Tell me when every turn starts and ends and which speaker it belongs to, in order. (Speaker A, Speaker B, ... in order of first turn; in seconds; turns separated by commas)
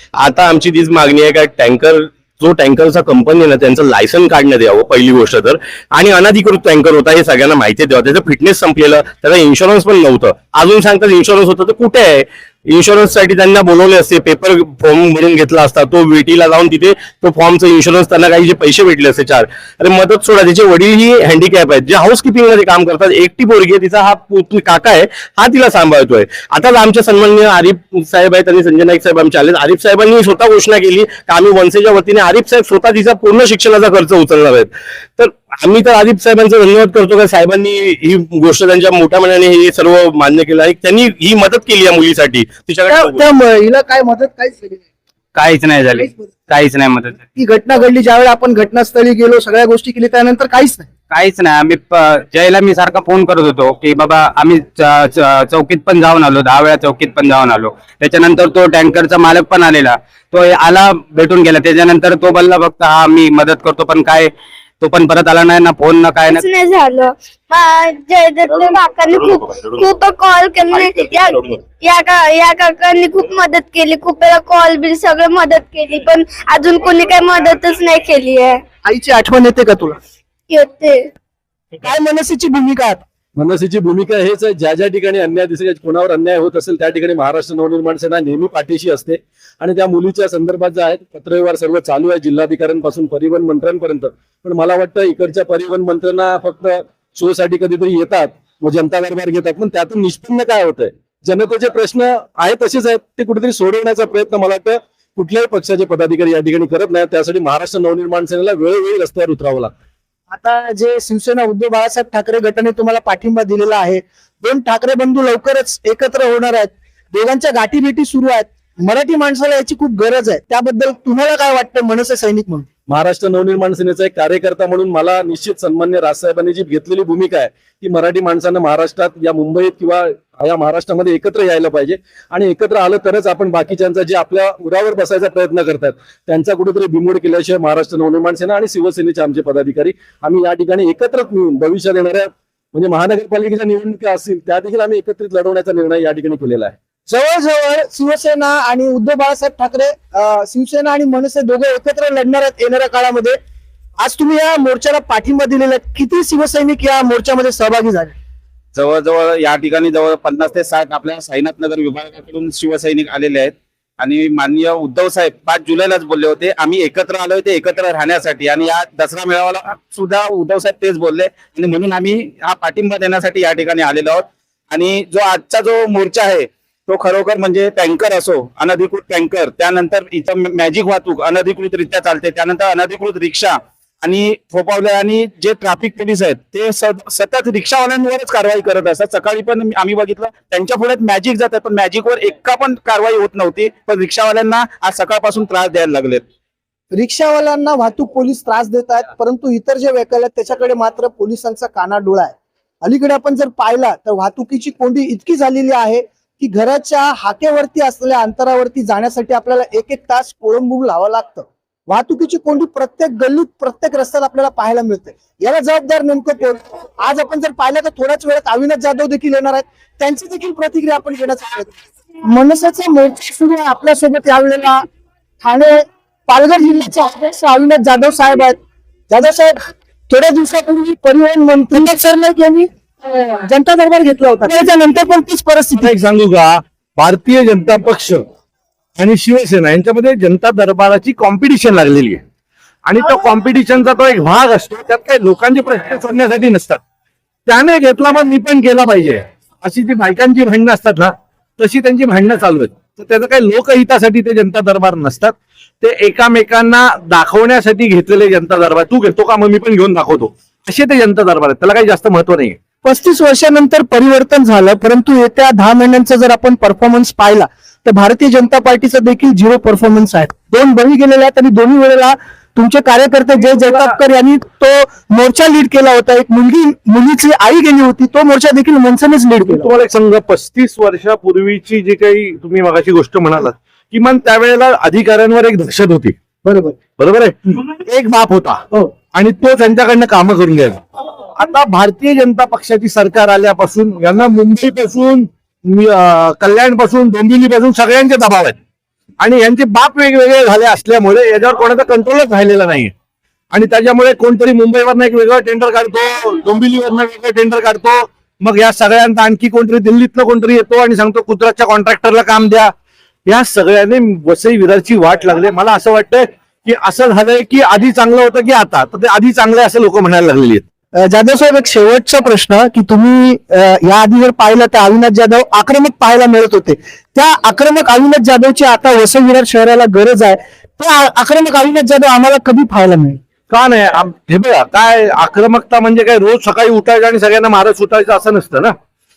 Speaker A: 0.2-43.3, Speaker B: 42.9-44.8, Speaker C: 45.4-47.2, Speaker B: 47.4-50.9, Speaker C: 51.1-64.3, Speaker C: 64.8-66.4, Speaker D: 66.3-78.6, Speaker B: 78.8-80.0, Speaker D: 80.5-81.1, Speaker B: 81.8-83.0, Speaker E: 83.4-109.7, Speaker B: 110.3-122.7, Speaker E: 122.9-146.8, Speaker B: 147.1-153.4, Speaker B: 154.0-158.2, Speaker F: 158.8-196.2, Speaker B: 196.9-221.7, Speaker B: 222.3-224.8, Speaker B: 225.4-228.6, Speaker B: 229.1-229.6, Speaker B: 230.1-235.9, Speaker G: 235.8-238.2, Speaker G: 239.0-242.2, Speaker G: 242.8-246.8, Speaker G: 247.5-262.6, Speaker B: 262.8-279.7, Speaker G: 273.6-273.9, Speaker G: 279.5-286.2, Speaker B: 286.4-286.8, Speaker G: 287.0-288.6, Speaker G: 289.1-290.8, Speaker G: 291.4-298.6, Speaker G: 299.2-302.9, Speaker G: 303.5-312.7, Speaker G: 313.3-320.6, Speaker B: 321.0-333.2, Speaker G: 333.5-338.8